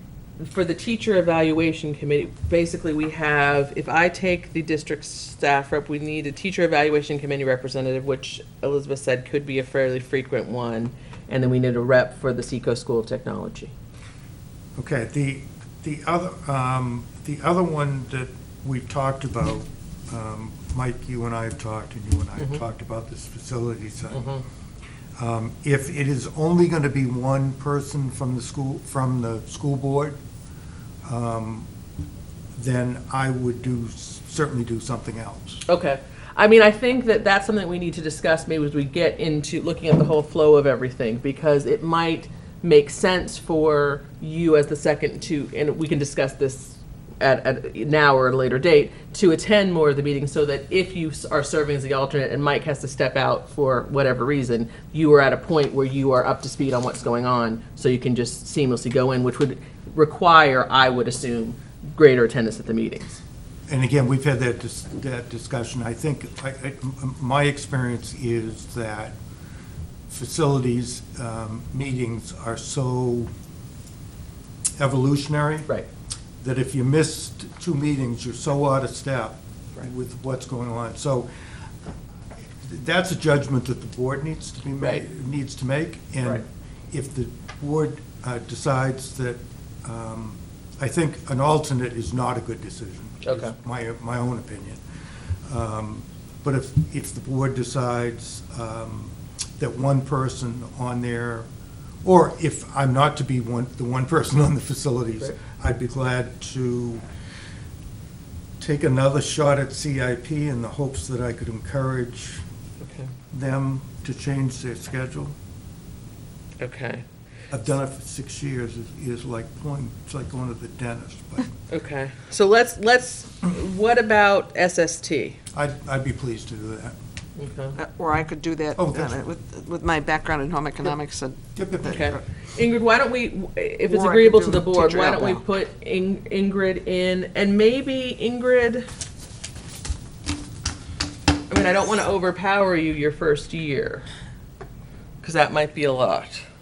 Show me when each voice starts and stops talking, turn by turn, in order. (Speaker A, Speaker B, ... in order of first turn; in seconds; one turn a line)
Speaker A: 0.4-13.7
Speaker B: 14.8-24.4
Speaker A: 24.1-24.4
Speaker B: 25.2-30.2
Speaker B: 31.0-31.7
Speaker B: 32.5-35.6
Speaker A: 35.7-63.2
Speaker B: 63.7-69.1
Speaker B: 70.1-73.3
Speaker B: 74.8-75.7
Speaker B: 76.4-81.3
Speaker B: 82.6-94.8
Speaker A: 93.2-93.5
Speaker B: 95.5-101.5
Speaker B: 102.0-107.0
Speaker B: 108.6-112.4
Speaker A: 112.8-113.1
Speaker B: 113.3-115.3
Speaker A: 116.6-117.0
Speaker B: 117.5-121.5
Speaker A: 121.7-125.4
Speaker B: 125.5-127.0
Speaker A: 127.4-127.8
Speaker C: 127.8-132.0
Speaker B: 128.7-129.2
Speaker B: 131.5-132.1
Speaker A: 131.8-138.9
Speaker C: 133.8-135.4
Speaker A: 141.5-144.1
Speaker A: 145.2-146.4